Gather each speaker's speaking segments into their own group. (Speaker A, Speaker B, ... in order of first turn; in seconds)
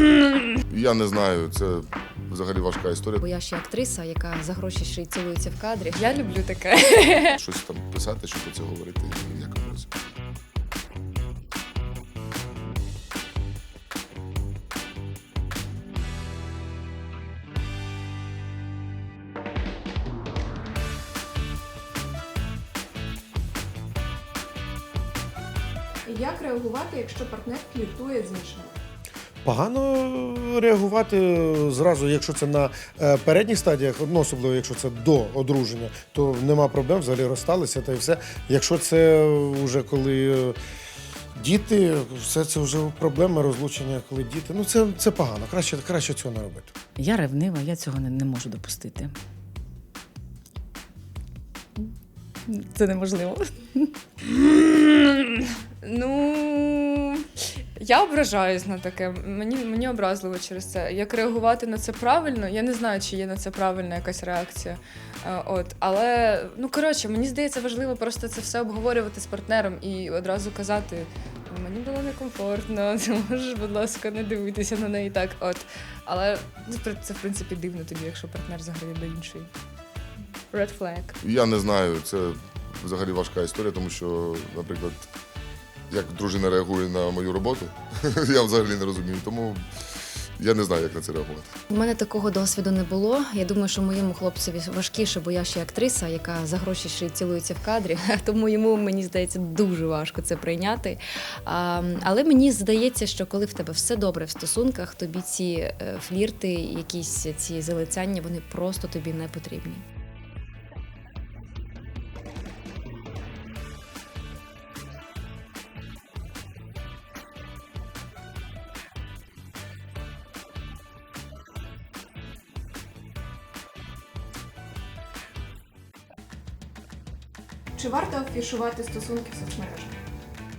Speaker A: 0.7-3.2, 7.3-9.9, 81.2-85.1, 85.9-91.6
Speaker B: 3.2-6.0, 91.7-109.8
Speaker C: 6.0-7.4, 54.3-79.5, 80.5-81.2
Speaker D: 26.1-28.7, 127.8-130.0
Speaker E: 29.4-40.6, 41.4-46.7
Speaker F: 47.0-49.1, 52.5-54.0